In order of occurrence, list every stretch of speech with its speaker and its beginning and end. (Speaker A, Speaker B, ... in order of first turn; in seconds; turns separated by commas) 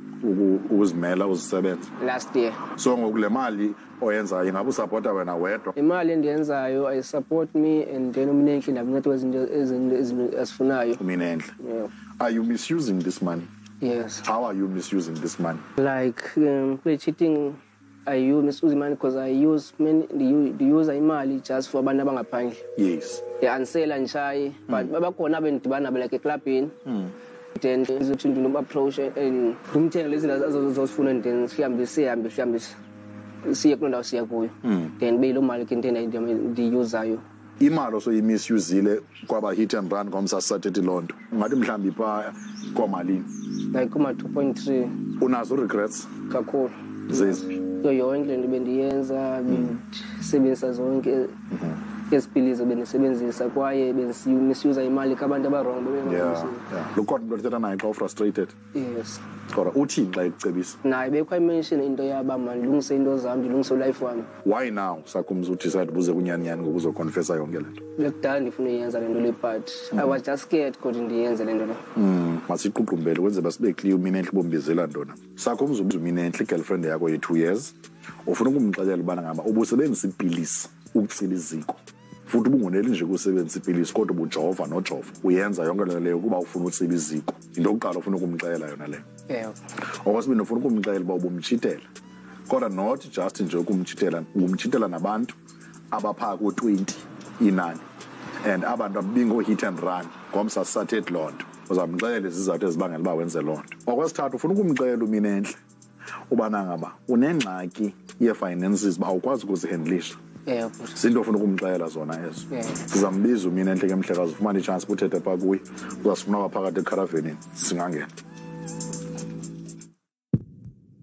Speaker A: 0.2-1.9, Speaker B: 2.0-2.6, Speaker A: 2.8-5.7, Speaker B: 5.7-11.0, Speaker A: 11.0-11.5, Speaker B: 11.6-11.9, Speaker A: 12.2-13.5, Speaker B: 13.8-14.2, Speaker A: 14.2-15.6, Speaker B: 15.8-22.6, Speaker A: 22.8-23.2, Speaker B: 23.4-26.7, Speaker A: 26.9-27.1, Speaker B: 27.5-32.8, Speaker B: 33.4-37.2, Speaker A: 34.6-34.9, Speaker A: 37.6-43.3, Speaker B: 43.7-44.9, Speaker A: 45.2-46.1, Speaker B: 46.3-51.3, Speaker A: 47.1-47.5, Speaker A: 49.5-49.7, Speaker A: 51.5-51.8, Speaker B: 52.1-56.6, Speaker A: 56.0-58.5, Speaker B: 58.7-59.2, Speaker A: 59.5-60.8, Speaker B: 60.8-64.3, Speaker A: 64.4-67.8, Speaker B: 68.0-71.8, Speaker A: 71.9-77.7, Speaker A: 78.2-89.0, Speaker B: 89.3-89.6, Speaker A: 90.0-91.9, Speaker A: 92.5-95.3, Speaker A: 95.9-97.8, Speaker A: 98.4-105.6, Speaker A: 106.3-110.2, Speaker B: 110.5-111.0, Speaker A: 111.0-118.1, Speaker B: 112.5-112.8